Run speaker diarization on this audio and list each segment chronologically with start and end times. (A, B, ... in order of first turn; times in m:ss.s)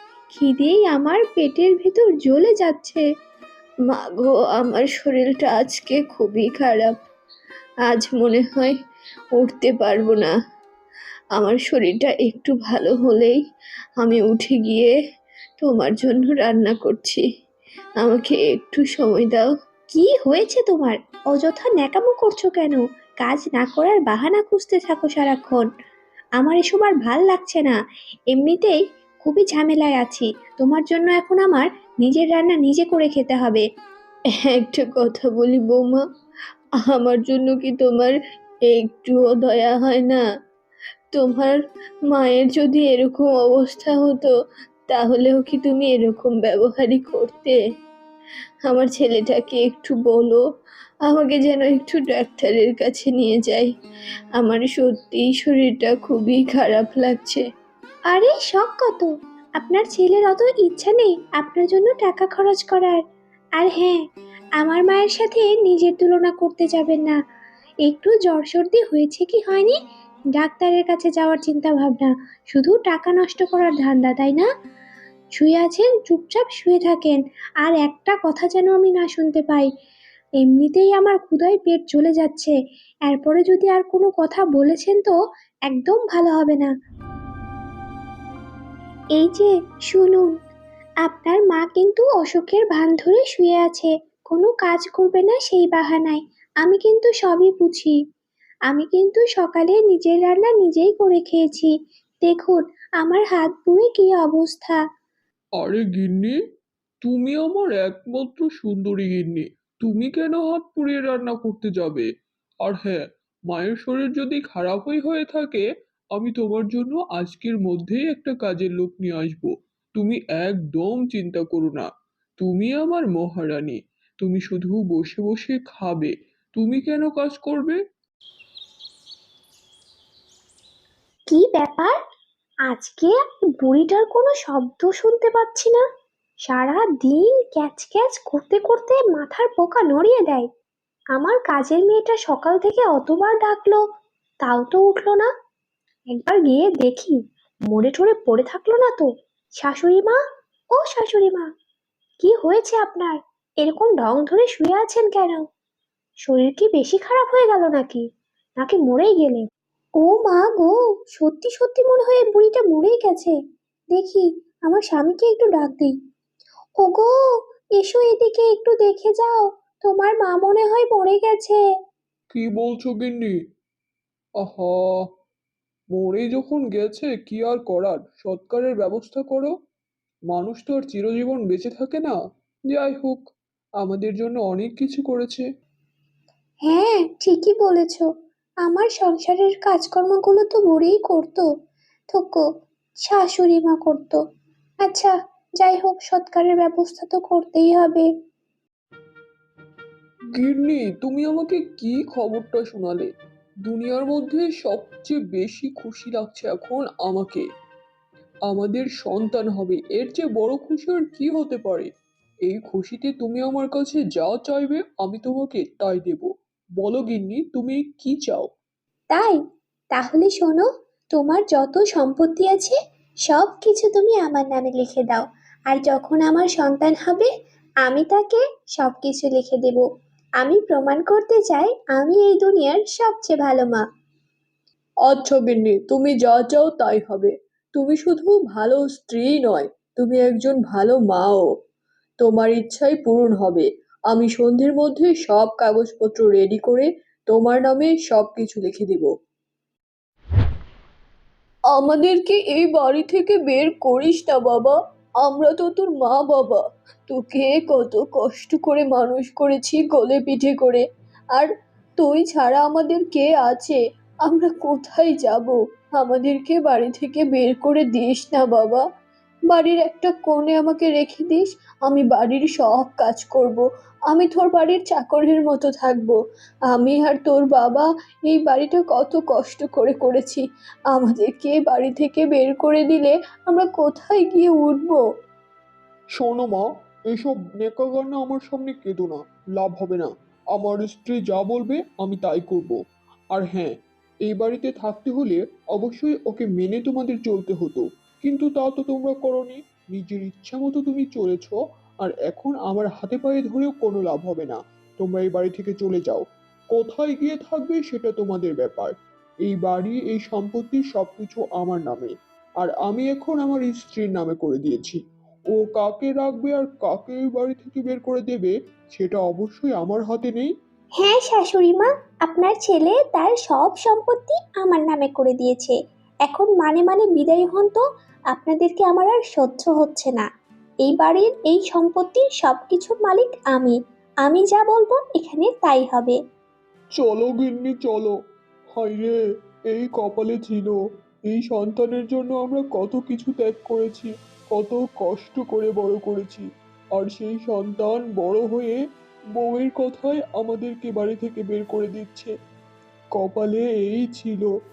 0:00.3-0:03.0 A
0:03.9-0:06.9 B
0:07.9-0:08.7 B
0:09.4-0:10.3 B
0:11.4-0:13.4 B
0:14.0-0:14.9 B
0:15.6-0:17.2 B
0:18.0-0:19.5 B
0:19.9-0:25.7 A
0:26.4-0:27.7 A
0:28.3-0:33.6 A
0:34.4-0:36.0 B
0:36.8-0:38.1 B
0:38.7-0:40.2 B
0:41.1-0:41.6 B
0:42.1-0:44.3 B
0:44.9-0:47.6 B
0:48.6-0:50.4 B
0:51.0-0:53.7 B
0:54.4-0:57.4 B
0:58.1-1:03.0 A
1:03.6-1:04.0 A
1:04.6-1:07.2 A
1:07.8-1:09.8 A
1:10.3-1:14.5 A
1:15.3-1:19.7 A
1:20.4-1:22.5 A
1:23.0-1:25.1 A
1:25.7-1:26.7 A
1:29.2-1:30.3 A
1:31.0-1:38.0 A
1:38.7-1:41.7 A
1:42.2-1:44.8 A
1:45.6-1:46.4 C
1:47.0-1:52.1 C
1:52.6-2:01.9 C
2:02.4-2:07.8 C
2:11.3-2:12.0 A
2:12.7-2:15.8 A
2:16.5-2:20.5 A
2:21.1-2:23.8 A
2:24.4-2:25.3 A
2:26.1-2:29.1 A
2:29.6-2:30.2 A
2:30.7-2:31.5 A
2:32.2-2:35.4 A
2:36.2-2:38.0 A
2:38.6-2:39.5 A
2:40.0-2:43.3 A
2:43.9-2:45.9 A
2:46.8-2:47.1 A
2:47.8-2:51.6 A
2:52.3-2:53.4 C
2:54.4-2:55.0 C
2:55.9-2:59.5 C
3:00.3-3:02.2 C
3:02.7-3:03.2 C
3:03.8-3:05.4 C
3:06.7-3:08.1 A
3:08.6-3:11.4 A
3:12.1-3:12.4 A
3:13.0-3:14.2 A
3:14.8-3:18.1 A
3:20.4-3:23.1 C
3:23.6-3:27.4 C
3:28.5-3:31.9 C
3:32.4-3:38.5 C
3:39.1-3:39.4 A
3:39.9-3:42.7 A
3:43.2-3:47.3 A
3:47.8-3:49.8 A
3:50.4-3:53.8 A
3:55.0-4:01.5 B
4:02.2-4:09.1 B
4:11.7-4:28.8 B
4:29.5-4:36.2 B
4:36.7-4:45.0 B
4:46.2-4:52.8 C
4:53.3-4:53.7 C
4:54.2-5:08.9 C
5:09.4-5:15.0 C
5:15.5-5:20.5 C
5:21.0-5:30.2 A
5:30.8-5:36.2 A
5:37.0-5:38.1 C
5:38.8-5:39.2 C
5:39.7-5:40.8 C
5:41.3-5:48.8 C
5:49.4-5:52.3 C
5:53.1-5:54.5 C